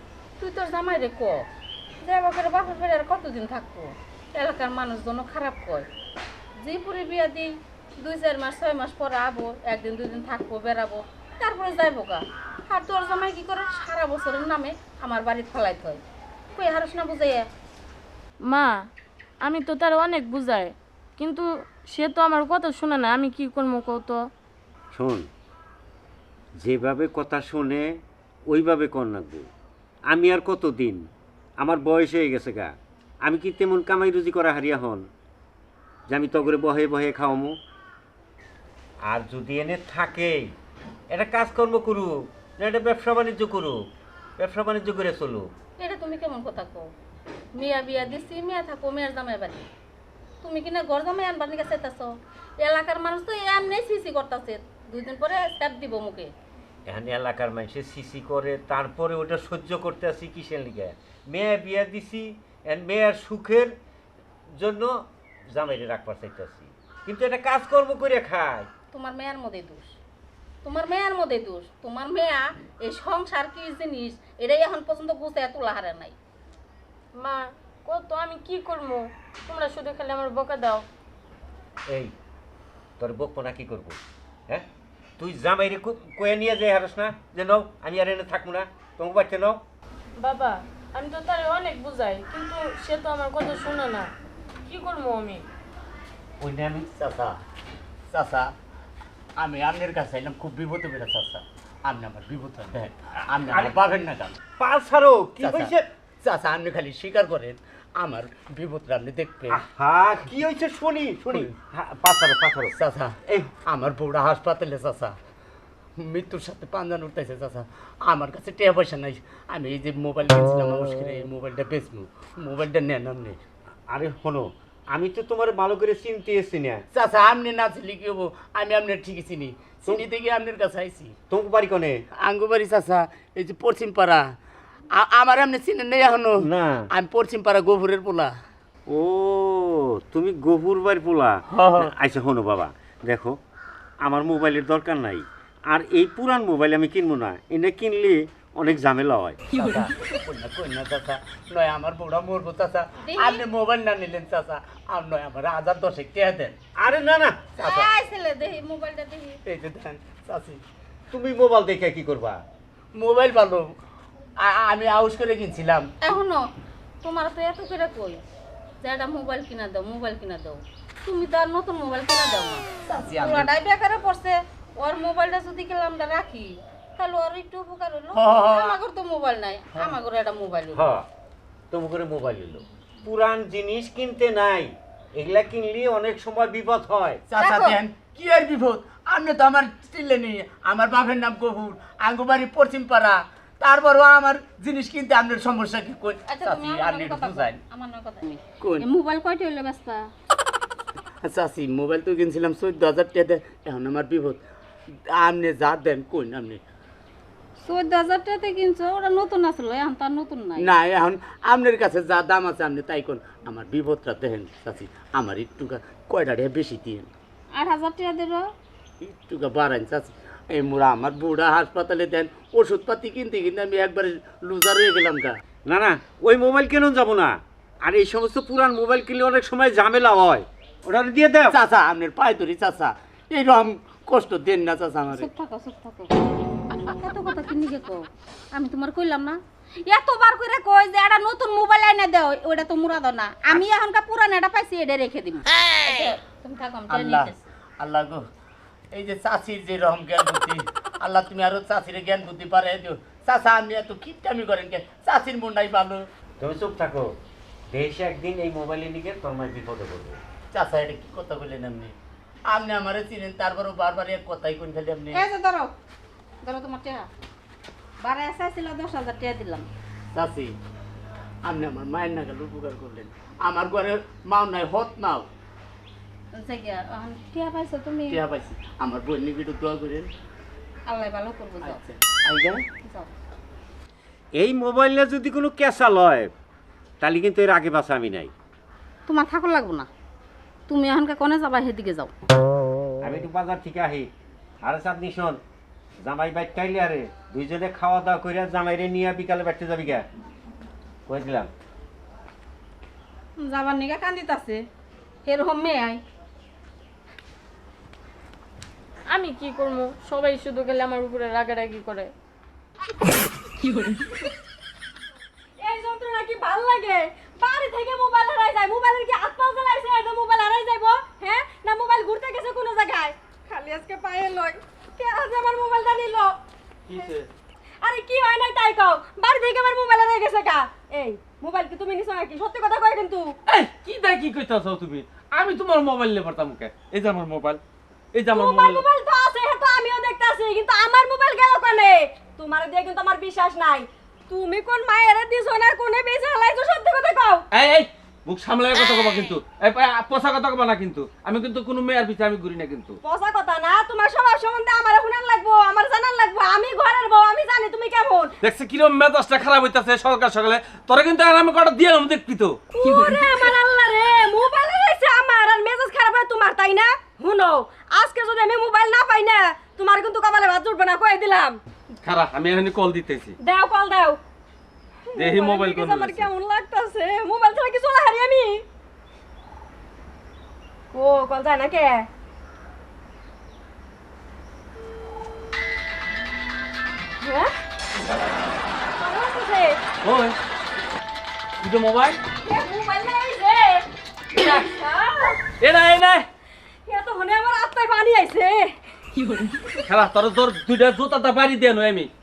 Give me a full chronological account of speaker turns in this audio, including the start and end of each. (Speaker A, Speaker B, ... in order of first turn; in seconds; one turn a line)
Speaker A: 0.4-1.5
Speaker A: 2.0-5.9
Speaker A: 6.6-16.0
Speaker A: 16.5-17.5
Speaker B: 18.4-18.7
Speaker B: 19.4-24.2
Speaker C: 24.9-25.2
Speaker C: 26.6-27.9
Speaker C: 28.5-29.5
Speaker C: 30.1-31.0
Speaker C: 31.6-32.7
Speaker C: 33.2-35.0
Speaker C: 36.1-37.5
Speaker C: 39.1-40.5
Speaker C: 41.1-43.8
Speaker C: 44.4-45.5
Speaker A: 45.8-46.9
Speaker A: 47.6-49.6
Speaker A: 50.4-56.3
Speaker C: 56.9-63.7
Speaker C: 64.6-65.0
Speaker C: 65.5-68.7
Speaker A: 68.9-70.0
Speaker A: 70.6-76.2
Speaker B: 77.1-80.8
Speaker C: 81.9-82.1
Speaker C: 83.0-84.7
Speaker C: 85.2-89.6
Speaker B: 90.2-94.1
Speaker B: 94.7-95.4
Speaker C: 96.4-96.9
Speaker D: 96.9-97.4
Speaker D: 98.1-98.5
Speaker D: 99.4-104.4
Speaker C: 103.3-103.8
Speaker C: 104.5-105.8
Speaker D: 105.4-109.6
Speaker C: 109.5-112.8
Speaker D: 111.3-111.6
Speaker D: 112.7-115.2
Speaker D: 116.0-123.4
Speaker C: 123.9-126.8
Speaker D: 126.9-131.2
Speaker C: 131.3-132.0
Speaker D: 132.1-134.3
Speaker D: 134.9-138.3
Speaker C: 136.4-136.8
Speaker C: 138.9-143.4
Speaker D: 141.5-141.9
Speaker C: 144.0-149.4
Speaker D: 149.5-156.6
Speaker A: 153.0-153.4
Speaker C: 156.8-157.5
Speaker D: 157.6-157.9
Speaker A: 157.6-159.4
Speaker D: 159.4-160.6
Speaker C: 161.1-162.4
Speaker D: 162.9-163.8
Speaker D: 164.4-165.9
Speaker A: 166.0-166.5
Speaker A: 167.0-168.2
Speaker A: 168.8-180.9
Speaker D: 172.9-173.5
Speaker D: 178.1-178.8
Speaker C: 180.7-181.1
Speaker C: 181.7-187.2
Speaker D: 187.3-197.6
Speaker A: 187.4-187.8
Speaker A: 196.3-200.1
Speaker D: 198.6-198.9
Speaker D: 201.2-206.6
Speaker A: 207.6-210.7
Speaker D: 210.6-217.1
Speaker A: 217.5-218.4
Speaker D: 219.0-225.3
Speaker C: 225.7-231.6
Speaker D: 231.5-235.3
Speaker A: 235.1-236.2
Speaker A: 237.0-247.5
Speaker D: 246.9-248.2
Speaker D: 248.9-256.0
Speaker C: 256.4-257.1
Speaker C: 257.7-260.2
Speaker D: 260.5-261.9
Speaker D: 262.5-265.2
Speaker A: 265.1-265.7
Speaker A: 266.4-267.1
Speaker A: 268.0-269.7
Speaker D: 270.1-270.6
Speaker D: 271.4-275.3
Speaker A: 276.3-278.2
Speaker D: 278.1-280.1
Speaker A: 280.9-281.8
Speaker D: 281.6-282.6
Speaker A: 282.8-283.1
Speaker C: 284.4-286.3
Speaker C: 287.0-288.3
Speaker A: 289.1-289.9
Speaker A: 290.7-292.1
Speaker C: 293.0-294.1
Speaker C: 294.6-295.4
Speaker C: 296.0-300.0
Speaker C: 301.1-301.5
Speaker A: 303.4-304.6
Speaker A: 305.2-306.0
Speaker B: 309.1-312.1
Speaker E: 315.6-326.4
Speaker F: 326.9-327.3
Speaker E: 327.8-333.3
Speaker F: 333.5-337.6
Speaker F: 338.1-338.8
Speaker E: 338.3-347.4
Speaker F: 347.5-353.0
Speaker E: 353.0-358.3
Speaker F: 358.4-362.6
Speaker E: 362.7-371.6
Speaker F: 372.0-373.4
Speaker E: 373.4-374.2
Speaker E: 375.1-378.6
Speaker F: 375.1-376.3
Speaker E: 380.9-382.1
Speaker E: 387.2-387.5
Speaker E: 389.0-389.8
Speaker F: 390.0-390.4
Speaker F: 391.6-392.2
Speaker E: 392.4-395.5
Speaker F: 395.6-396.3
Speaker E: 396.9-398.8
Speaker F: 399.9-402.1